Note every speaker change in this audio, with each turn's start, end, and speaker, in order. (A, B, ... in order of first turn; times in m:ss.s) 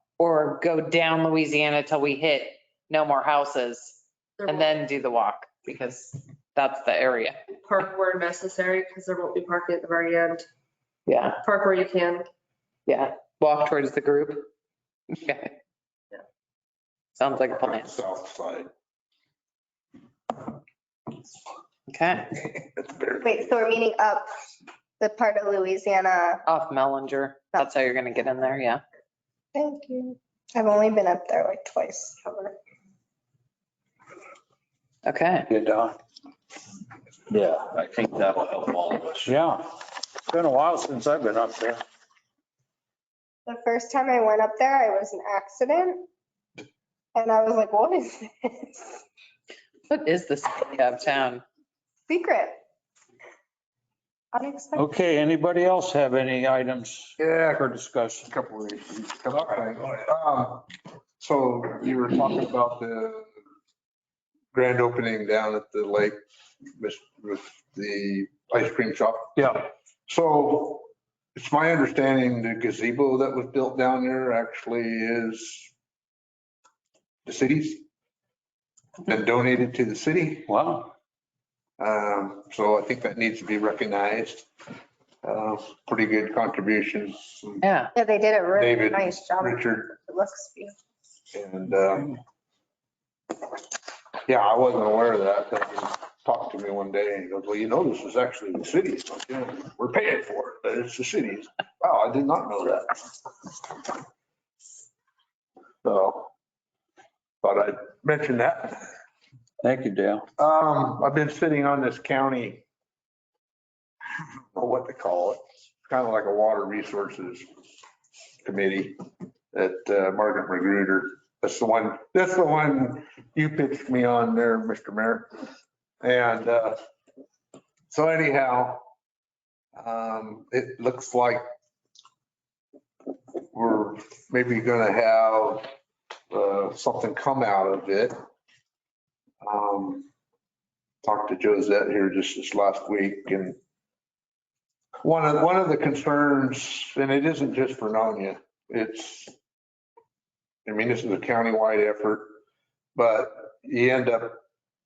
0:00.2-0:07.4 A
0:04.4-0:04.7 B
0:07.5-0:10.4 B
0:11.0-0:11.4 A
0:11.4-0:12.2 B
0:12.8-0:14.5 A
0:15.1-0:15.5 A
0:17.2-0:18.0 A
0:17.6-0:18.7 C
0:21.9-0:22.3 A
0:22.7-0:23.4 C
0:23.2-0:24.3 D
0:25.0-0:26.4 D
0:26.4-0:28.8 A
0:29.5-0:32.5 D
0:35.0-0:35.5 A
0:35.5-0:36.0 E
0:37.3-0:39.3 F
0:39.2-0:41.8 E
0:43.4-0:46.0 D
0:47.1-0:49.0 D
0:49.9-0:51.4 A
0:52.1-0:52.6 D
0:54.3-0:54.9 D
0:54.7-0:58.3 E
0:57.2-0:57.6 C
0:58.3-1:00.7 C
1:01.2-1:03.3 C
1:04.5-1:06.2 C
1:06.8-1:15.7 C
1:09.4-1:09.7 E
1:17.2-1:17.8 C
1:19.1-1:20.5 C
1:20.5-1:20.9 E
1:21.8-1:24.5 C
1:25.2-1:27.6 C
1:27.6-1:27.9 A
1:27.9-1:30.7 D
1:28.6-1:29.9 C
1:31.3-1:32.2 C
1:34.3-1:43.1 C
1:45.8-1:46.3 C
1:47.4-1:48.9 C
1:49.6-1:50.2 E
1:50.4-1:52.6 C
1:54.5-1:57.5 C
1:58.4-1:59.0 C
1:59.5-2:05.3 C
2:06.0-2:06.8 C
2:07.9-2:08.8 C
2:09.8-2:11.4 C
2:13.5-2:15.7 C
2:16.3-2:18.2 C
2:19.4-2:20.1 C
2:21.0-2:23.6 C
2:25.0-2:29.3 C
2:30.6-2:32.4 C
2:33.0-2:34.4 C